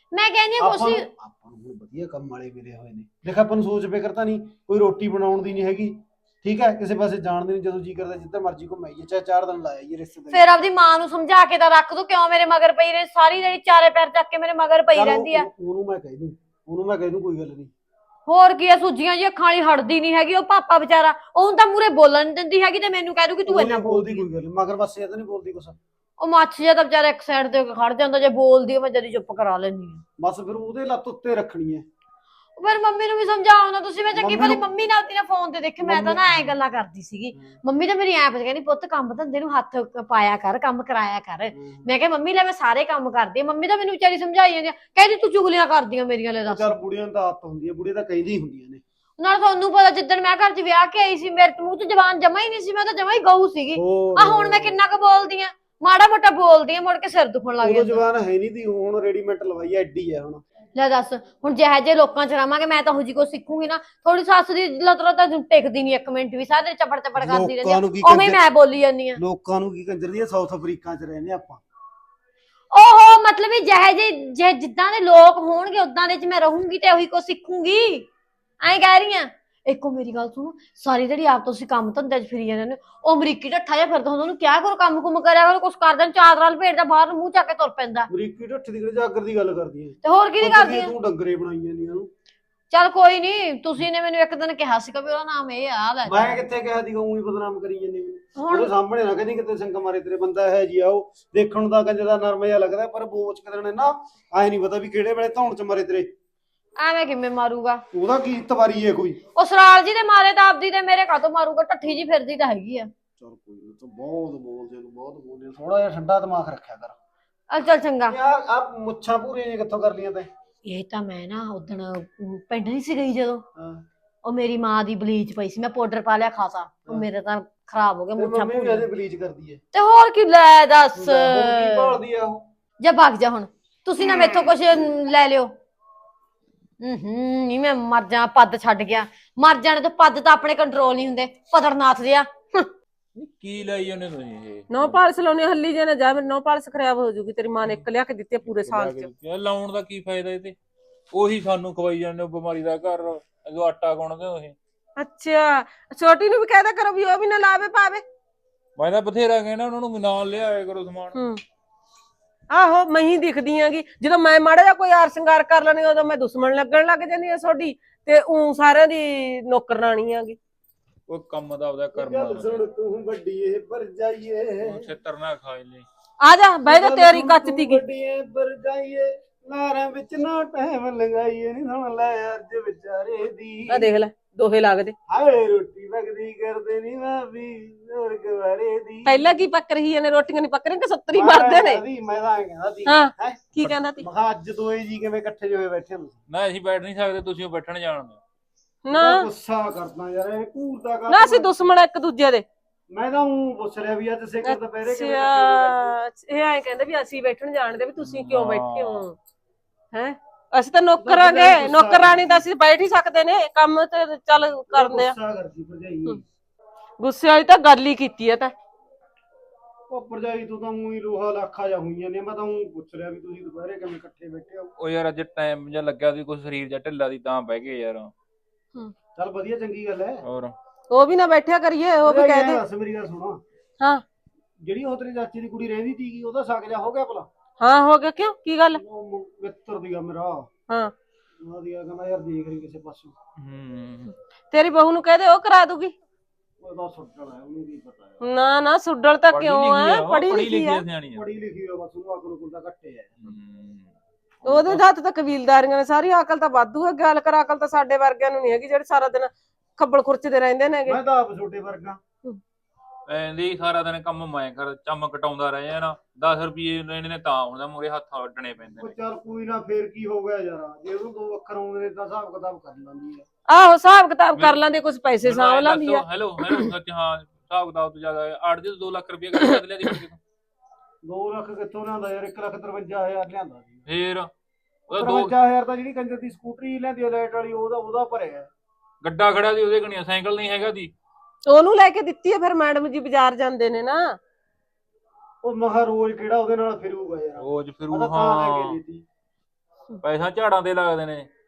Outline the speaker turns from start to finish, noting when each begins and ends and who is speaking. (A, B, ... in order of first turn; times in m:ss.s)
0:00.1-0:01.0 A
0:00.6-0:10.5 B
0:10.3-0:15.5 A
0:14.9-0:17.7 B
0:18.3-0:24.2 A
0:23.5-0:25.8 B
0:26.2-0:30.0 A
0:30.2-0:31.8 B
0:32.6-0:46.7 A
0:34.1-0:34.6 B
0:35.8-0:36.6 B
0:41.5-0:41.9 B
0:46.4-0:48.8 B
0:49.2-0:58.0 A
0:53.7-0:54.8 B
0:57.6-1:00.4 B
1:00.7-1:09.2 A
1:07.2-1:08.4 B
1:09.2-1:11.6 B
1:12.7-1:18.1 A
1:18.6-1:28.1 A
1:28.1-1:32.1 B
1:30.0-1:30.9 A
1:32.7-1:36.4 A
1:36.0-1:46.1 B
1:38.4-1:38.7 C
1:46.8-1:47.8 A
1:47.9-1:49.2 B
1:49.4-1:52.9 A
1:53.2-1:56.9 B
1:57.5-1:58.2 A
1:58.1-2:00.3 B
2:00.6-2:03.4 A
2:03.6-2:03.8 B
2:04.2-2:08.9 A
2:08.2-2:09.6 B
2:09.7-2:12.0 A
2:10.9-2:12.4 B
2:12.8-2:15.5 A
2:16.8-2:22.7 A
2:23.2-2:25.0 D
2:24.7-2:29.1 C
2:28.4-2:30.5 D
2:31.1-2:34.6 D
2:35.0-2:38.0 C
2:38.8-2:41.2 D
2:41.1-2:41.4 C
2:42.5-2:50.4 C
2:51.1-2:52.6 D
2:51.9-2:54.9 B
2:54.6-2:55.8 D
2:56.2-2:57.8 C
2:56.6-3:04.0 B
3:03.7-3:04.9 C
3:05.1-3:09.4 B
3:09.0-3:11.8 C
3:11.1-3:16.2 B
3:12.8-3:14.0 C
3:16.3-3:18.2 D
3:18.8-3:19.2 C
3:18.9-3:21.5 B
3:21.1-3:22.4 C
3:22.9-3:26.0 B
3:24.4-3:29.2 C
3:28.0-3:29.0 D
3:29.9-3:35.1 C
3:31.0-3:32.4 B
3:34.7-3:36.2 B
3:37.0-3:38.5 C
3:39.9-3:44.7 B
3:44.8-3:48.1 D
3:49.1-3:50.2 B
3:50.2-3:50.5 D
3:50.9-3:52.6 C
3:52.0-3:53.4 B
3:54.6-3:57.3 B
3:57.6-3:58.8 C
3:58.7-4:00.5 B
4:01.4-4:03.1 B
4:03.4-4:04.1 D
4:04.5-4:05.9 C
4:06.6-4:08.2 B
4:08.2-4:10.8 C
4:09.3-4:11.2 D
4:11.1-4:13.1 B
4:13.2-4:13.9 D
4:14.4-4:14.8 D
4:14.4-4:21.0 C
4:20.8-4:22.0 B
4:23.1-4:28.9 D
4:28.8-4:33.2 B
4:33.5-4:36.7 C
4:35.2-4:40.2 D
4:41.0-4:43.8 B
4:43.9-4:44.3 D
4:44.9-4:45.3 D
4:44.9-4:48.5 B
4:49.0-4:50.9 D
4:51.4-4:54.2 C
4:55.4-4:59.0 B
4:57.4-4:58.8 D
5:00.0-5:01.3 D